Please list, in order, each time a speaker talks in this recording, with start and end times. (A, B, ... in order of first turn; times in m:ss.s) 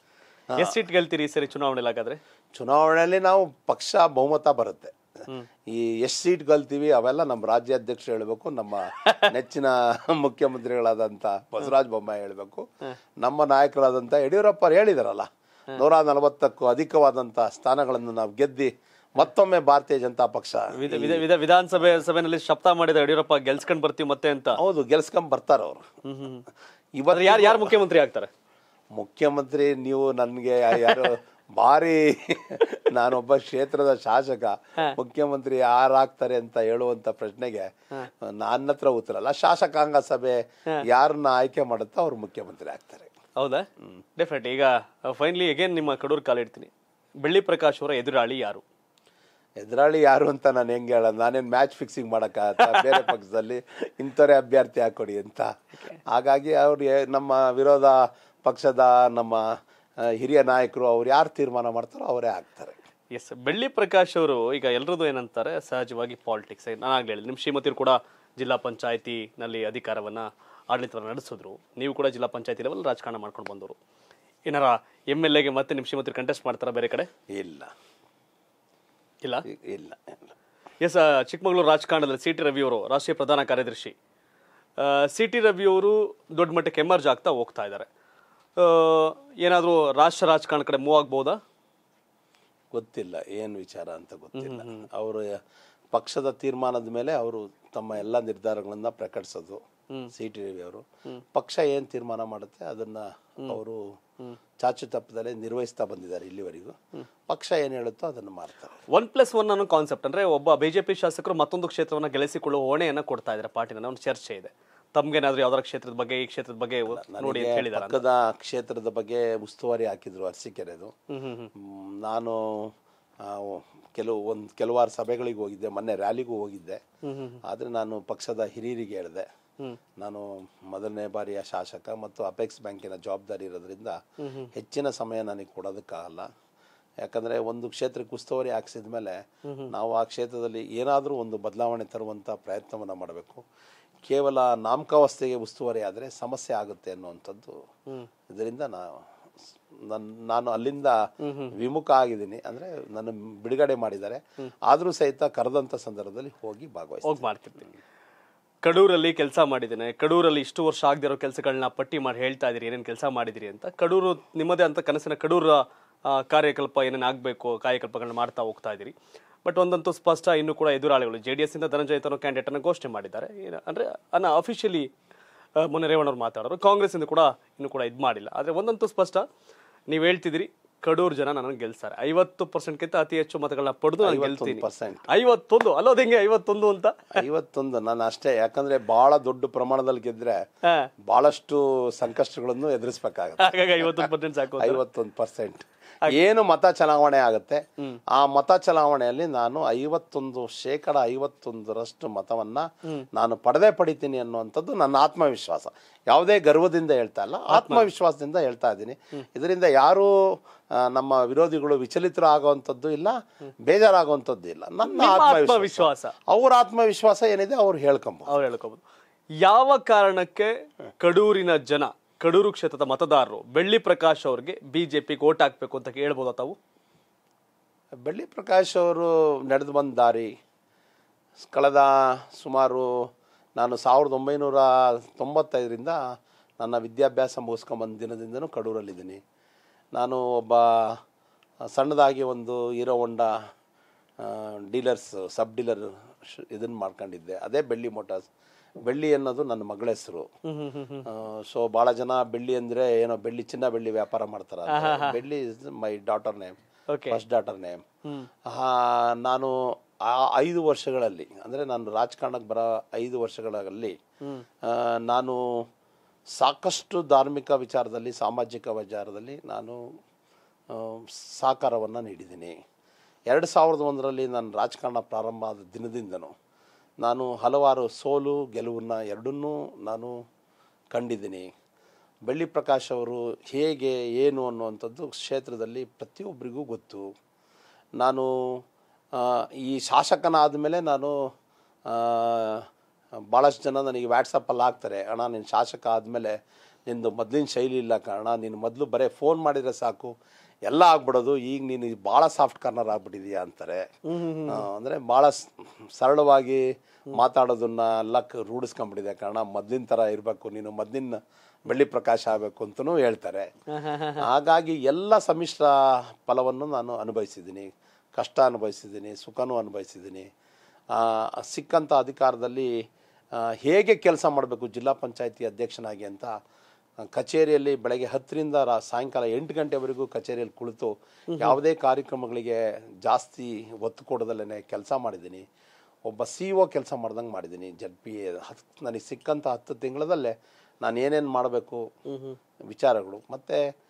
0:00.6-0:02.2 A
0:02.6-0:05.0 B
0:05.7-0:12.6 B
0:09.0-0:09.3 A
0:13.2-0:21.2 B
0:20.8-0:24.6 A
0:24.6-0:25.9 B
0:26.0-0:26.4 A
0:27.0-0:27.8 B
0:27.1-0:28.3 A
0:29.0-0:43.1 B
0:30.7-0:31.1 A
0:43.4-0:43.6 A
0:44.2-0:46.7 A
0:47.2-0:48.6 A
0:49.6-0:59.5 B
0:52.6-0:53.1 A
1:00.0-1:02.8 B
1:03.1-1:13.8 A
1:14.4-1:17.1 A
1:17.3-1:17.7 B
1:19.5-1:20.2 B
1:20.8-1:23.9 A
1:24.8-1:27.9 A
1:28.6-1:31.4 A
1:32.7-1:35.4 B
1:34.4-1:34.8 A
1:35.9-1:39.6 B
1:40.1-1:43.8 B
1:44.6-1:48.8 B
1:48.9-1:58.0 A
1:56.8-2:00.9 B
2:01.1-2:01.5 A
2:01.6-2:06.8 B
2:07.0-2:07.4 A
2:07.4-2:09.3 B
2:10.0-2:14.0 B
2:14.2-2:14.5 A
2:14.5-2:16.3 B
2:17.0-2:23.4 B
2:19.4-2:19.7 A
2:24.0-2:27.6 B
2:28.3-2:29.0 B
2:29.7-2:37.2 B
2:31.2-2:31.5 A
2:37.0-2:37.7 A
2:38.6-2:48.9 A
2:49.4-2:54.9 A
2:55.6-2:59.2 A
2:59.9-3:07.2 A
3:04.0-3:05.1 B
3:07.1-3:10.4 B
3:11.0-3:17.6 B
3:13.4-3:14.8 A
3:18.1-3:38.4 B
3:27.5-3:27.9 A
3:34.8-3:36.1 A
3:38.3-3:38.8 A
3:39.4-3:46.6 A
3:48.0-3:50.3 B
3:51.4-3:56.0 B
3:56.6-3:59.2 B
3:59.9-4:01.0 B
4:01.7-4:03.3 B
4:04.2-4:08.3 B
4:08.8-4:10.3 B
4:10.4-4:11.1 A
4:11.0-4:16.6 B
4:14.7-4:15.2 A
4:16.9-4:17.2 A
4:17.1-4:17.8 B
4:18.4-4:24.0 B
4:24.6-4:25.4 B
4:26.4-4:29.8 B
4:30.7-4:32.6 B
4:33.3-4:36.3 B
4:37.0-4:40.1 B
4:40.9-4:41.5 B
4:42.3-4:47.1 B
4:48.0-4:48.6 B
4:49.1-4:51.2 B
4:51.9-4:52.6 B
4:53.3-4:56.4 B
4:56.9-5:00.1 B
5:00.6-5:03.9 B
5:04.1-5:04.6 A
5:04.5-5:13.5 B
5:13.7-5:14.3 A
5:14.2-5:20.3 B
5:20.9-5:22.7 B
5:23.4-5:26.3 B
5:27.0-5:35.4 B
5:31.3-5:31.6 A
5:36.0-5:41.9 B
5:42.1-5:42.4 A
5:42.7-5:43.6 B